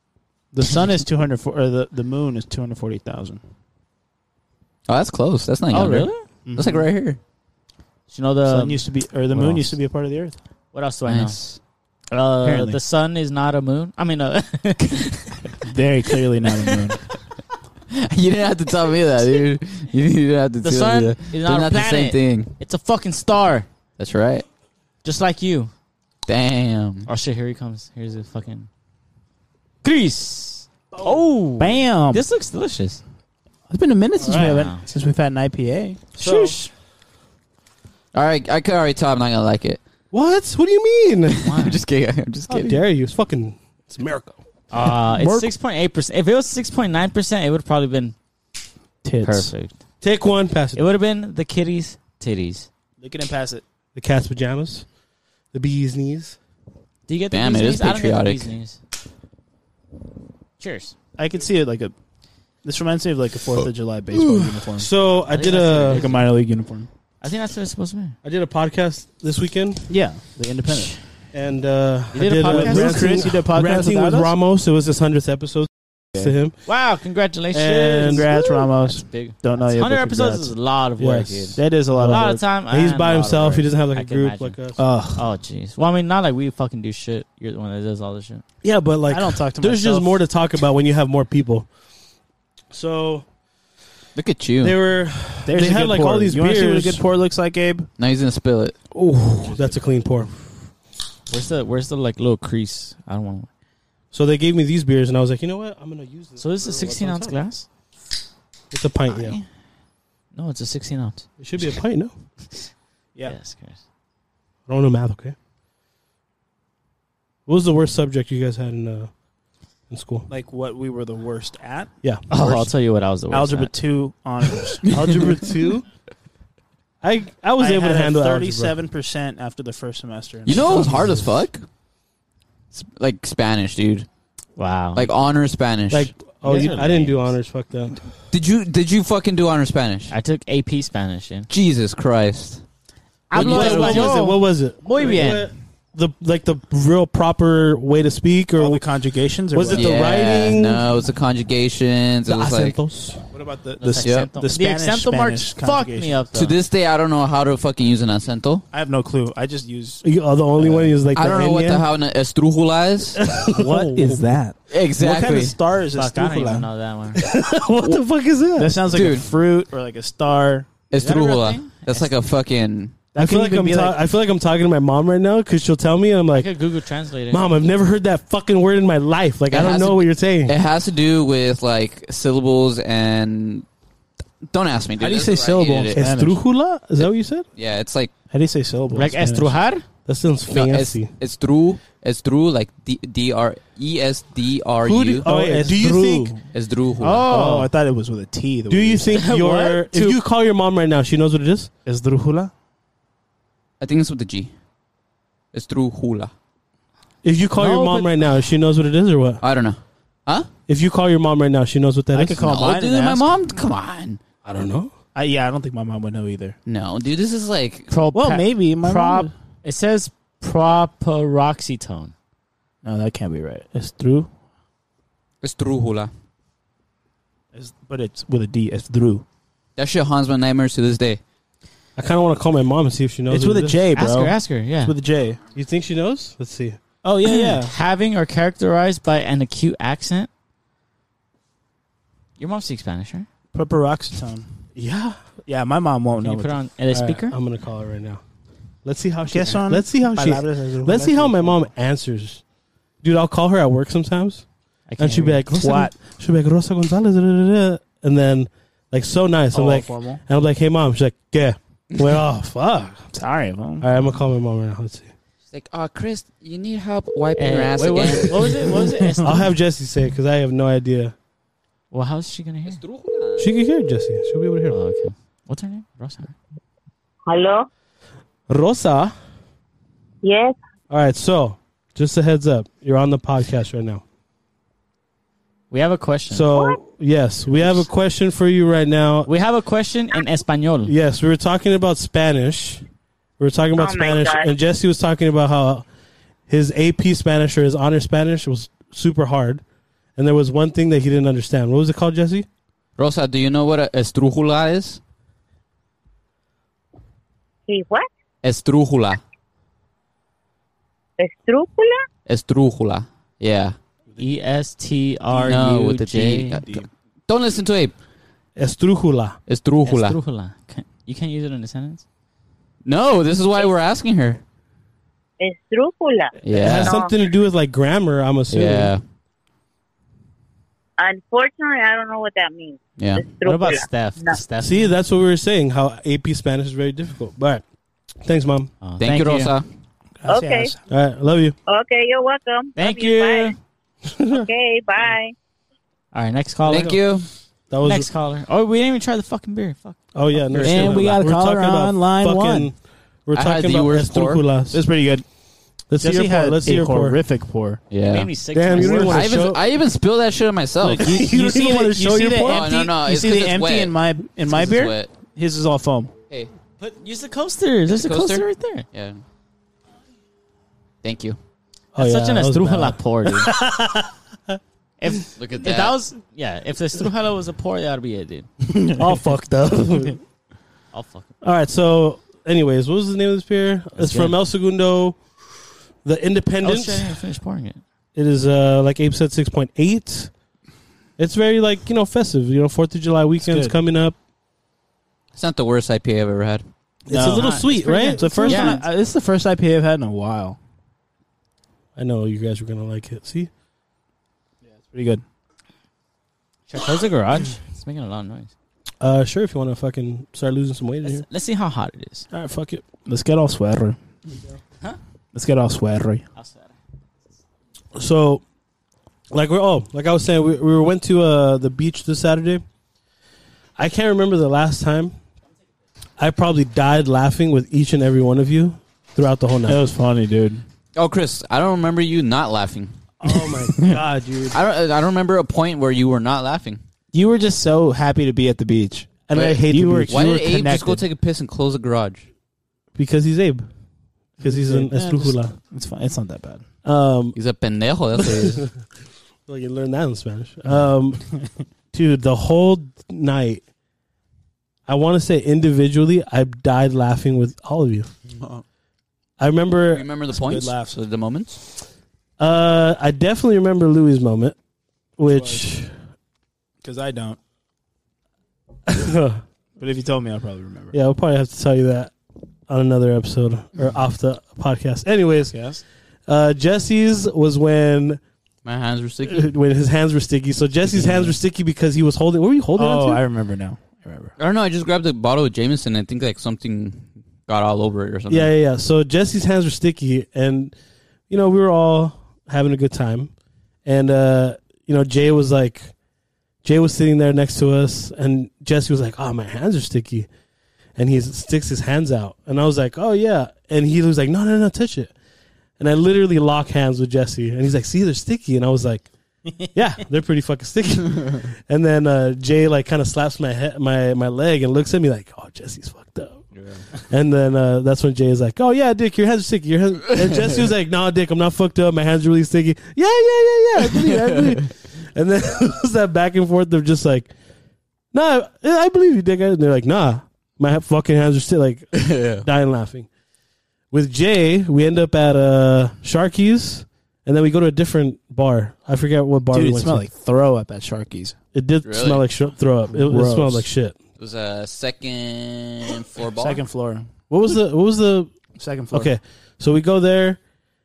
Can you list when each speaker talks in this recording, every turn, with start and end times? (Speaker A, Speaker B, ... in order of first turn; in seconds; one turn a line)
Speaker A: 0.5-3.4
Speaker B: 4.9-7.2
Speaker C: 5.7-6.2
Speaker A: 6.5-6.9
Speaker C: 8.1-9.7
Speaker A: 8.5-10.4
Speaker C: 10.7-11.4
Speaker B: 11.1-11.6
Speaker C: 12.1-15.6
Speaker A: 12.4-12.8
Speaker A: 15.6-17.0
Speaker B: 17.9-22.5
Speaker C: 20.6-23.7
Speaker B: 24.0-24.4
Speaker C: 25.0-25.7
Speaker B: 26.3-27.1
Speaker C: 27.1-28.7
Speaker C: 29.8-33.0
Speaker A: 31.6-32.2
Speaker A: 33.7-36.1
Speaker D: 34.2-34.7
Speaker C: 34.4-34.9
Speaker D: 36.2-36.6
Speaker C: 36.2-36.7
Speaker B: 38.1-39.8
Speaker D: 40.1-41.5
Speaker B: 41.4-42.8
Speaker C: 41.4-41.8
Speaker D: 42.5-44.4
Speaker C: 44.7-48.1
Speaker A: 45.1-45.5
Speaker A: 49.0-49.5
Speaker C: 49.2-49.8
Speaker D: 50.0-50.8
Speaker C: 50.8-52.7
Speaker A: 53.0-53.6
Speaker D: 54.0-54.9
Speaker D: 55.5-56.4
Speaker C: 57.1-58.8
Speaker B: 57.3-58.5
Speaker C: 60.6-61.0
Speaker A: 61.2-61.9
Speaker A: 62.6-64.9
Speaker D: 64.1-66.1
Speaker C: 65.3-66.3
Speaker A: 65.7-66.9
Speaker C: 67.2-68.2
Speaker D: 68.2-69.9
Speaker A: 69.9-71.0
Speaker D: 71.3-76.6
Speaker C: 72.1-73.3
Speaker A: 72.5-74.3
Speaker C: 76.7-84.6
Speaker D: 77.5-78.3
Speaker A: 78.0-80.5
Speaker D: 81.0-84.8
Speaker A: 81.6-82.4
Speaker A: 84.8-85.2
Speaker C: 85.2-88.4
Speaker D: 88.6-91.7
Speaker A: 89.1-90.2
Speaker D: 92.7-93.2
Speaker B: 94.2-94.8
Speaker D: 94.6-97.0
Speaker A: 95.5-97.9
Speaker B: 98.0-98.8
Speaker D: 98.9-100.4
Speaker C: 101.3-103.5
Speaker D: 104.1-107.4
Speaker C: 106.4-107.7
Speaker D: 108.7-109.4
Speaker C: 109.1-109.4
Speaker C: 110.3-111.2
Speaker D: 111.4-112.1
Speaker C: 113.2-113.8
Speaker D: 114.7-115.4
Speaker D: 117.5-119.1
Speaker D: 119.9-120.3
Speaker A: 120.3-122.7
Speaker C: 122.3-123.7
Speaker A: 123.3-124.9
Speaker B: 124.9-125.5
Speaker D: 124.9-125.8
Speaker D: 127.0-128.8
Speaker A: 127.6-131.0
Speaker B: 130.5-131.7
Speaker D: 130.5-131.3
Speaker B: 132.7-134.1
Speaker C: 134.6-135.1
Speaker B: 134.9-136.1
Speaker D: 135.9-138.1
Speaker A: 136.4-136.8
Speaker C: 136.5-137.3
Speaker B: 138.3-140.1
Speaker C: 140.1-141.5
Speaker B: 141.5-142.7
Speaker C: 143.3-145.5
Speaker B: 143.3-144.1
Speaker D: 143.3-148.8
Speaker A: 143.7-144.0
Speaker A: 145.0-145.4
Speaker A: 148.6-150.0
Speaker D: 149.5-150.9
Speaker B: 149.8-152.8
Speaker D: 152.3-153.2
Speaker A: 153.3-156.2
Speaker C: 153.8-156.6
Speaker B: 154.0-154.3
Speaker B: 156.3-158.6
Speaker A: 158.7-160.1
Speaker D: 160.0-161.9
Speaker A: 160.6-161.0
Speaker B: 161.1-163.2
Speaker D: 163.2-164.2
Speaker A: 163.5-166.7
Speaker B: 164.7-165.6
Speaker C: 165.9-167.2
Speaker D: 167.2-169.0
Speaker A: 168.6-170.7
Speaker B: 168.9-169.3
Speaker B: 170.9-173.0
Speaker C: 170.9-172.1
Speaker A: 173.1-174.0
Speaker D: 173.2-176.5
Speaker C: 176.3-177.4
Speaker D: 177.3-180.5
Speaker C: 179.5-180.0
Speaker B: 180.5-183.7
Speaker B: 184.4-186.0
Speaker A: 185.0-186.4
Speaker D: 185.9-187.5
Speaker B: 187.0-188.1
Speaker A: 188.3-189.6
Speaker C: 188.9-189.8
Speaker D: 190.1-191.1
Speaker B: 190.5-195.3
Speaker D: 194.8-196.3
Speaker A: 195.3-196.4
Speaker B: 196.5-197.3
Speaker C: 197.0-197.7
Speaker A: 197.2-200.1
Speaker D: 198.7-201.7
Speaker C: 199.2-200.1
Speaker A: 201.9-202.5
Speaker B: 203.8-204.5
Speaker B: 205.5-206.3
Speaker D: 207.2-209.4
Speaker C: 207.6-208.1
Speaker B: 209.4-210.5
Speaker D: 210.7-212.5
Speaker A: 212.1-213.3
Speaker B: 212.4-214.2
Speaker D: 214.4-214.9
Speaker A: 215.2-216.6
Speaker B: 216.7-217.9
Speaker C: 217.9-222.1
Speaker A: 218.1-219.3
Speaker A: 222.8-224.3
Speaker B: 225.4-226.1
Speaker A: 227.5-229.2
Speaker B: 229.8-231.2
Speaker D: 232.0-233.8
Speaker A: 233.3-235.4
Speaker C: 233.9-234.9
Speaker D: 235.6-236.8
Speaker A: 237.0-237.7
Speaker C: 237.3-240.3
Speaker C: 242.4-243.3
Speaker A: 243.5-244.5
Speaker D: 244.8-245.2
Speaker A: 245.5-246.6
Speaker C: 246.2-247.4
Speaker D: 246.9-248.2
Speaker D: 248.8-252.4
Speaker A: 249.3-251.7
Speaker D: 253.0-254.5
Speaker C: 254.9-255.4
Speaker D: 255.0-263.1
Speaker A: 255.5-255.9
Speaker A: 259.5-260.2
Speaker A: 263.1-263.9
Speaker D: 263.8-265.1
Speaker B: 265.5-268.7
Speaker C: 267.4-269.5
Speaker A: 268.6-269.4
Speaker D: 269.2-271.1
Speaker C: 271.9-272.8
Speaker B: 272.7-273.5
Speaker D: 273.4-274.8
Speaker C: 274.7-276.4
Speaker E: 277.3-277.7
Speaker D: 278.5-279.1
Speaker E: 280.2-280.6
Speaker D: 280.9-284.0
Speaker C: 285.7-286.5
Speaker D: 286.3-289.3
Speaker C: 289.3-290.9
Speaker D: 290.9-292.8
Speaker D: 293.4-295.9
Speaker E: 293.8-294.5
Speaker D: 296.5-299.6
Speaker D: 300.2-302.5
Speaker B: 303.0-305.0
Speaker E: 307.7-308.1
Speaker B: 308.4-309.2
Speaker E: 311.2-312.0
Speaker B: 312.3-313.8
Speaker C: 314.2-316.6
Speaker A: 315.3-315.7
Speaker B: 315.4-317.9
Speaker A: 316.6-316.9
Speaker D: 318.6-319.4
Speaker B: 319.5-320.2
Speaker C: 319.8-322.0
Speaker B: 322.9-324.4
Speaker E: 325.4-327.1
Speaker B: 326.4-326.9
Speaker D: 326.4-328.9
Speaker B: 328.5-329.0
Speaker E: 331.0-334.4
Speaker B: 333.0-333.2
Speaker C: 333.4-334.9
Speaker D: 334.6-337.6
Speaker D: 338.2-338.7
Speaker C: 338.8-339.5
Speaker B: 339.0-339.7
Speaker A: 339.0-339.3
Speaker A: 340.2-340.8
Speaker E: 340.3-340.7
Speaker D: 340.9-341.6
Speaker E: 341.7-343.6
Speaker C: 342.8-343.6
Speaker D: 344.1-344.5
Speaker E: 344.3-345.3
Speaker C: 346.1-347.0
Speaker B: 346.7-347.3
Speaker D: 347.7-348.1
Speaker C: 347.8-351.2
Speaker D: 350.1-354.8
Speaker A: 350.6-352.7
Speaker B: 353.3-354.4
Speaker A: 354.7-355.2
Speaker D: 355.9-357.2
Speaker A: 356.0-357.8
Speaker B: 357.9-358.3
Speaker C: 358.1-359.3
Speaker D: 358.5-359.6
Speaker B: 358.9-361.1
Speaker A: 360.8-366.1
Speaker D: 360.9-362.7
Speaker B: 362.5-365.1
Speaker C: 366.8-368.9
Speaker B: 367.9-369.2
Speaker B: 371.0-371.4
Speaker D: 371.9-374.6
Speaker C: 372.0-373.5
Speaker C: 375.0-378.5
Speaker B: 375.4-376.0
Speaker A: 378.7-379.1
Speaker D: 379.0-380.2
Speaker C: 380.9-381.3
Speaker D: 381.4-385.2
Speaker C: 384.0-384.3
Speaker D: 386.1-387.2
Speaker C: 386.6-387.8
Speaker D: 388.1-390.3
Speaker D: 391.2-394.2
Speaker A: 393.4-393.8
Speaker B: 395.4-396.7
Speaker D: 397.1-398.8
Speaker A: 397.1-400.6
Speaker C: 397.1-398.9
Speaker D: 402.0-403.5
Speaker A: 404.7-405.2
Speaker C: 406.7-408.5
Speaker D: 409.0-411.3
Speaker C: 411.0-412.3
Speaker D: 412.3-412.9
Speaker A: 413.0-414.0
Speaker A: 415.3-416.2
Speaker C: 416.4-416.7
Speaker D: 417.9-418.4
Speaker D: 419.3-422.6
Speaker D: 423.8-425.1
Speaker D: 426.2-429.8
Speaker A: 429.7-430.6
Speaker B: 430.9-433.0
Speaker D: 433.2-434.6
Speaker A: 433.7-434.0
Speaker B: 434.5-436.8
Speaker A: 437.1-441.1
Speaker D: 439.3-440.6
Speaker B: 439.4-442.3
Speaker D: 443.0-443.7
Speaker D: 444.4-445.5
Speaker A: 444.4-446.6
Speaker D: 446.9-447.4
Speaker B: 447.4-448.7
Speaker D: 448.2-448.7
Speaker D: 449.5-451.3
Speaker D: 451.9-453.6
Speaker D: 454.9-458.1
Speaker A: 458.3-458.6
Speaker D: 459.4-460.1
Speaker B: 459.9-461.6
Speaker A: 460.3-461.0
Speaker D: 462.4-464.6
Speaker D: 465.2-465.9
Speaker A: 465.2-465.7
Speaker A: 466.8-467.4
Speaker D: 468.9-469.4
Speaker A: 469.8-471.0
Speaker D: 470.9-472.1
Speaker D: 472.7-475.6
Speaker A: 475.5-475.8
Speaker D: 476.3-478.2
Speaker B: 478.6-479.5
Speaker D: 479.2-483.2
Speaker A: 482.8-484.3
Speaker B: 484.4-488.5
Speaker D: 488.3-490.8
Speaker D: 491.3-493.3
Speaker D: 493.9-495.9
Speaker D: 496.6-500.3
Speaker D: 501.0-505.1
Speaker D: 505.8-509.1
Speaker D: 509.7-516.5
Speaker D: 517.0-527.3
Speaker B: 524.2-524.6
Speaker D: 528.1-533.1
Speaker B: 531.9-532.5
Speaker D: 533.9-540.1
Speaker A: 539.5-541.4
Speaker D: 541.5-544.0
Speaker B: 541.8-542.3
Speaker A: 542.9-543.7
Speaker B: 544.2-546.6
Speaker A: 546.4-547.1
Speaker D: 547.3-548.3
Speaker A: 548.6-549.1
Speaker D: 548.9-550.4